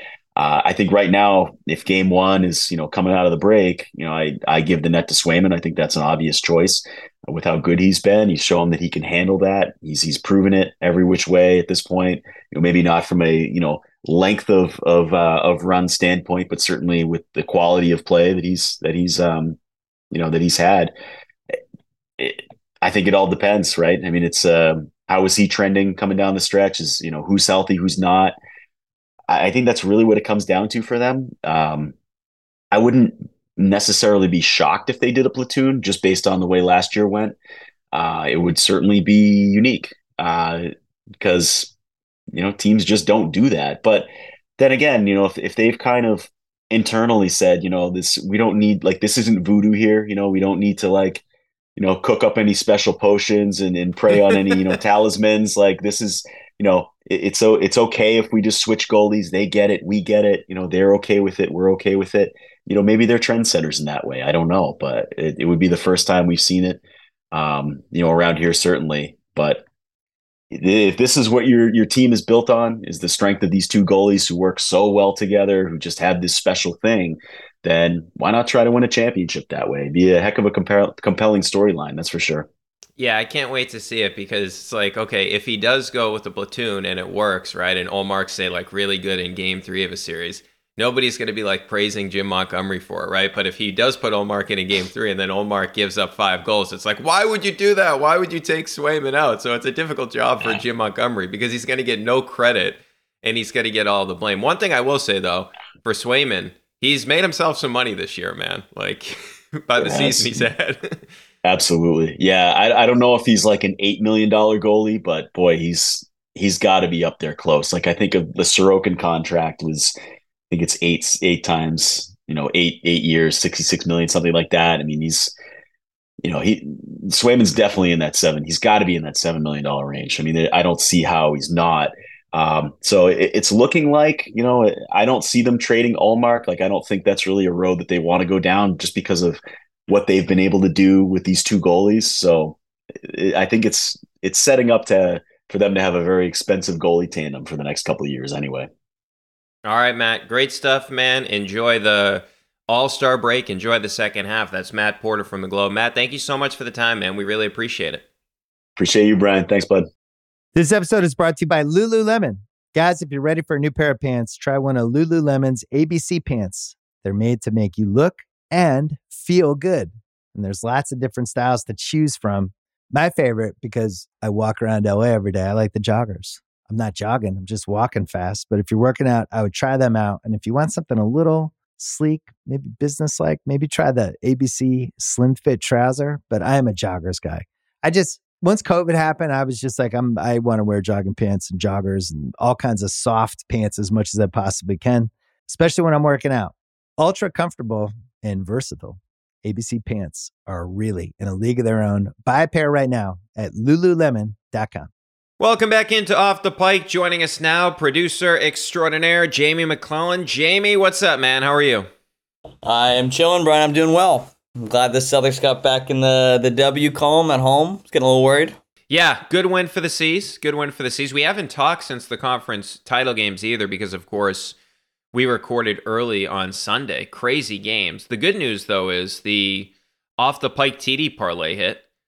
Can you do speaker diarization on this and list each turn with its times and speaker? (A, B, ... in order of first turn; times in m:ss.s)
0:00.4-0:19.6 A
0:20.1-0:20.9 A
0:22.2-0:28.3 A
0:29.3-0:31.9 A
0:32.7-0:37.4 A
0:37.9-0:41.7 A
0:42.3-0:51.2 A
0:51.8-1:06.8 A
1:07.3-1:09.6 A
1:10.5-1:22.5 A
1:23.0-1:51.1 B
1:49.8-1:50.5 A
1:51.4-1:59.9 A
2:00.5-2:05.3 A
2:06.2-2:22.6 A
2:23.1-2:28.7 A
2:29.7-2:38.0 B
2:38.8-2:39.9 A
2:40.6-3:24.9 C
3:25.4-3:31.9 B
3:32.6-3:38.6 D
3:38.9-3:44.6 B
3:45.1-3:51.8 B